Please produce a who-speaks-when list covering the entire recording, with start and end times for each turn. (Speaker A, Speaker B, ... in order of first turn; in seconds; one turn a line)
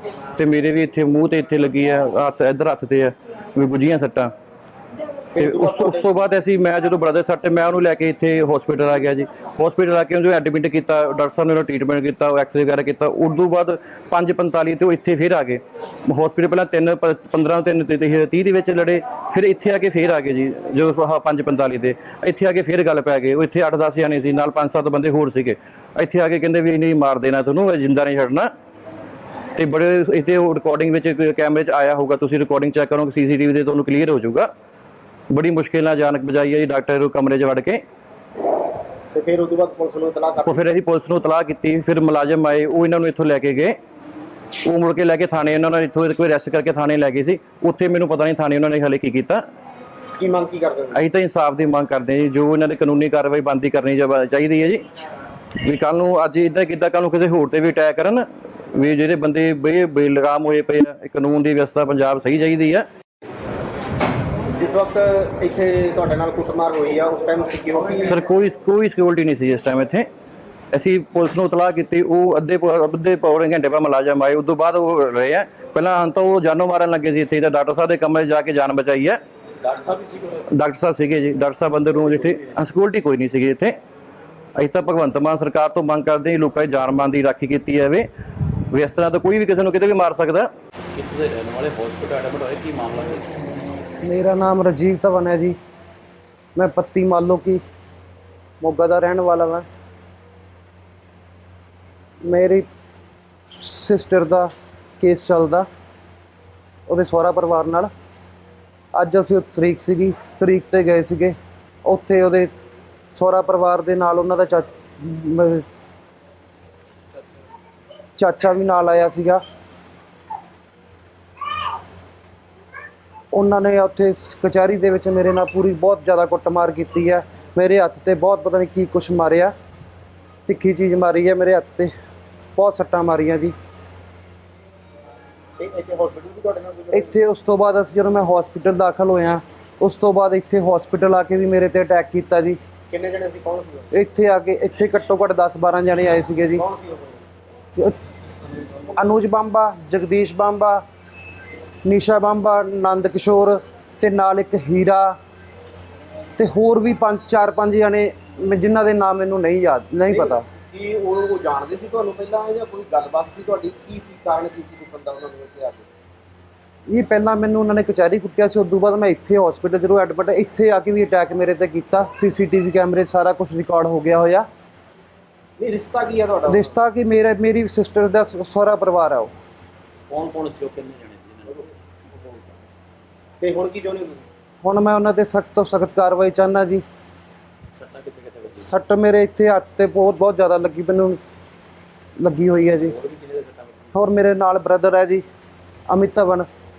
Speaker A: 0.3-4.3
Speaker B: 5.3-6.1
Speaker A: 5.3-28.5
Speaker A: 29.6-34.5
Speaker A: 35.3-37.8
Speaker B: 39.1-40.7
Speaker A: 40.5-43.8
Speaker A: 44.6-49.4
Speaker B: 50.2-51.0
Speaker A: 50.9-54.8
Speaker A: 55.6-62.9
Speaker B: 64.5-68.2
Speaker A: 68.1-70.1
Speaker A: 70.7-79.2
Speaker C: 79.6-80.4
Speaker A: 80.5-83.8
Speaker A: 84.6-88.1
Speaker A: 88.7-90.5
Speaker C: 90.9-93.6
Speaker D: 94.0-95.6
Speaker D: 96.6-97.6
Speaker D: 98.6-99.7
Speaker D: 102.2-102.7
Speaker D: 103.6-105.7
Speaker D: 106.9-107.9
Speaker D: 109.0-112.5
Speaker D: 113.1-115.6
Speaker D: 118.2-119.4
Speaker D: 123.3-129.5
Speaker D: 130.5-131.9
Speaker D: 132.6-133.5
Speaker B: 135.6-137.2
Speaker D: 136.9-142.6
Speaker B: 142.9-143.9
Speaker D: 143.9-146.6
Speaker B: 146.6-147.2
Speaker D: 148.9-150.8
Speaker D: 151.8-155.2
Speaker D: 156.4-160.4
Speaker B: 160.1-165.9
Speaker D: 166.9-174.4
Speaker B: 175.6-176.7
Speaker D: 176.5-179.3
Speaker C: 180.1-181.7
Speaker B: 183.4-184.2
Speaker D: 184.6-186.8
Speaker C: 187.8-188.7
Speaker D: 188.6-191.2
Speaker D: 192.2-192.9
Speaker C: 192.9-193.9
Speaker D: 193.9-195.2
Speaker D: 195.9-196.5